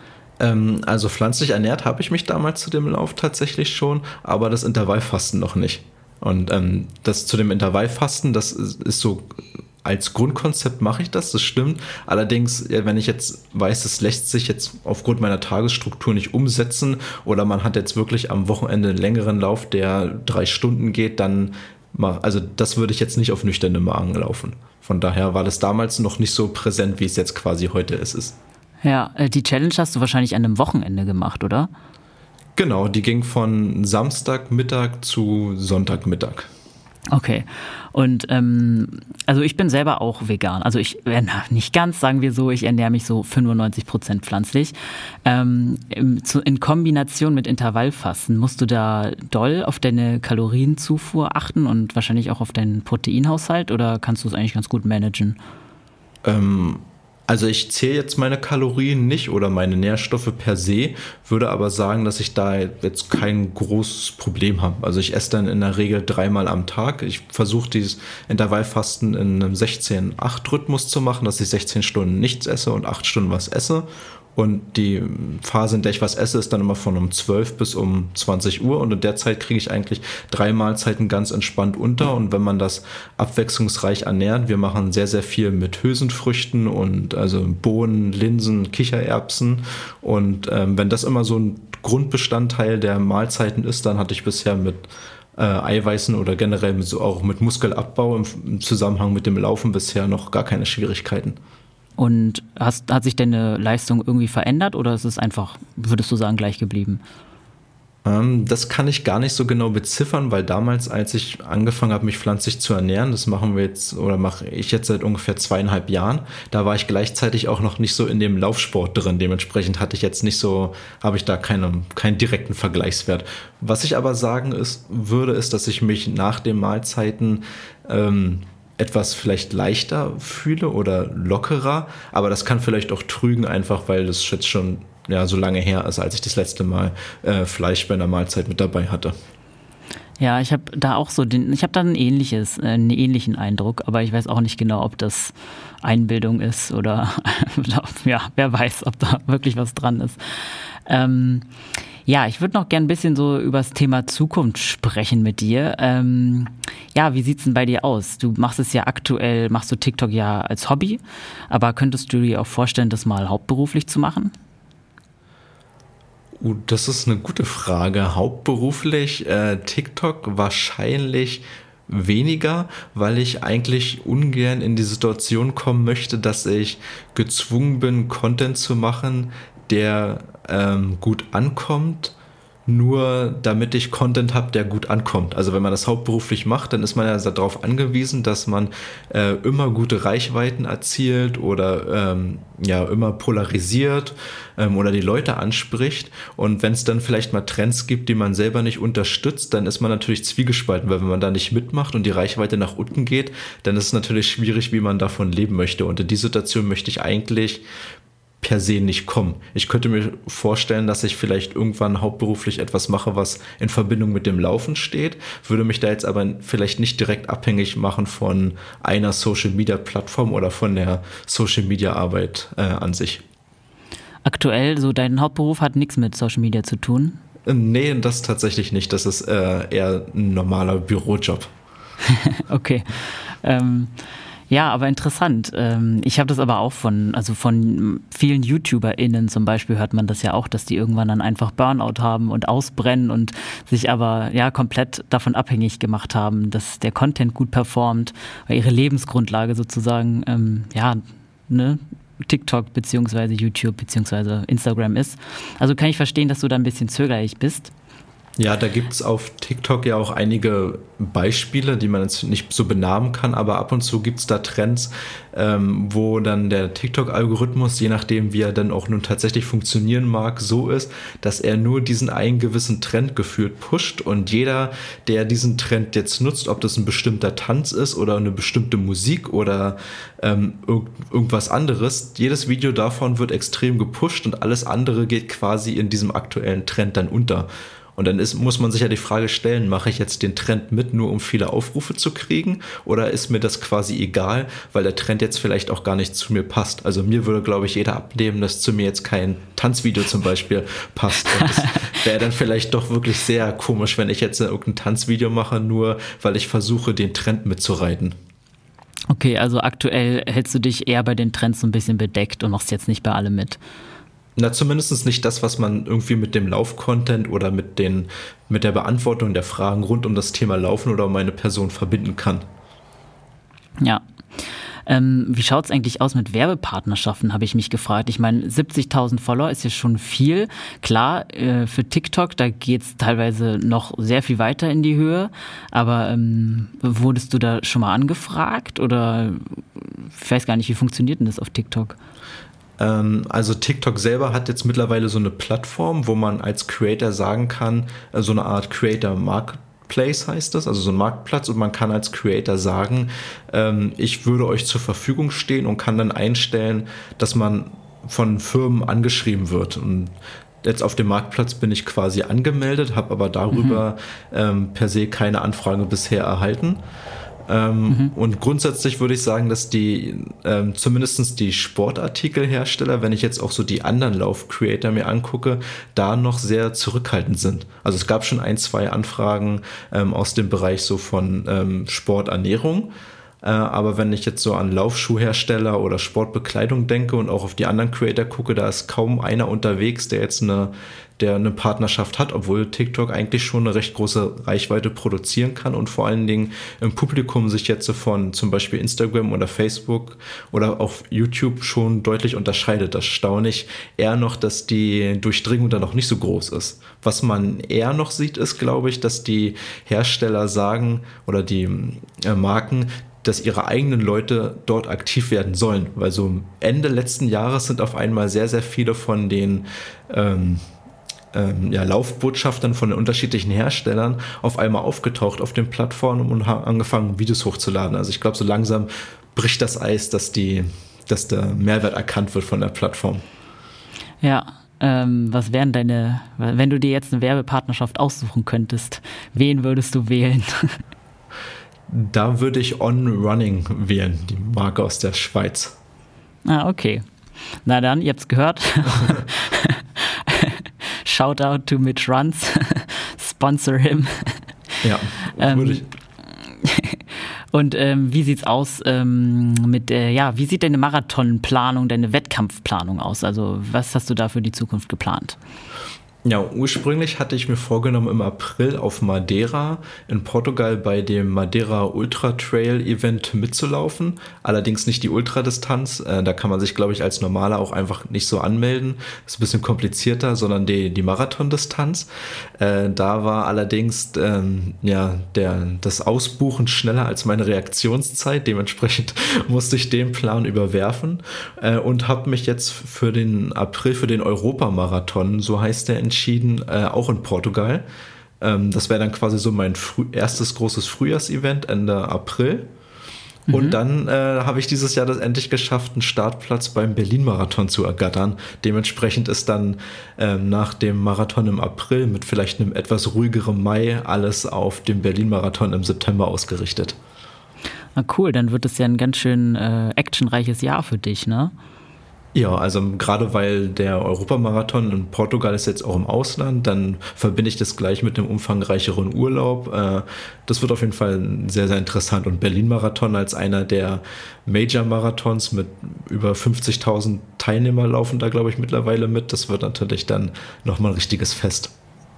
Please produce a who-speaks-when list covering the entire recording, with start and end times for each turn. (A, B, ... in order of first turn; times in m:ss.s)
0:00.4-0:28.4 A
0:28.8-0:31.7 B
0:32.6-0:36.5 A
0:37.1-0:55.4 B
0:56.2-1:34.8 A
1:35.4-1:41.4 A
1:42.0-1:47.0 B
1:48.0-2:19.2 A
2:20.2-2:31.5 B
2:32.0-2:44.3 B
2:46.4-3:02.1 A
3:02.7-3:27.6 A
3:28.4-3:43.2 A
3:44.2-3:47.2 B
3:47.4-3:51.5 A
3:52.0-3:53.9 B
3:54.5-4:17.7 B
4:18.4-5:08.2 A
5:01.3-5:01.7 B
5:09.1-5:13.6 B
5:14.4-5:22.4 A
5:23.8-5:42.0 B
5:42.8-6:06.8 A
6:03.5-6:03.8 B
6:07.5-6:22.9 A
6:23.4-7:00.6 A
7:01.3-7:13.2 A
7:14.2-7:20.8 B
7:21.9-7:25.8 A
7:26.4-7:27.0 B
7:27.6-7:34.4 B
7:34.8-7:35.9 A
7:35.4-7:35.8 B
7:36.4-7:45.4 B
7:46.2-8:02.1 A
8:02.6-8:17.8 A
8:18.4-8:22.7 A
8:23.5-8:23.8 B
8:23.5-8:37.0 A
8:38.0-8:41.5 B
8:42.3-9:01.7 A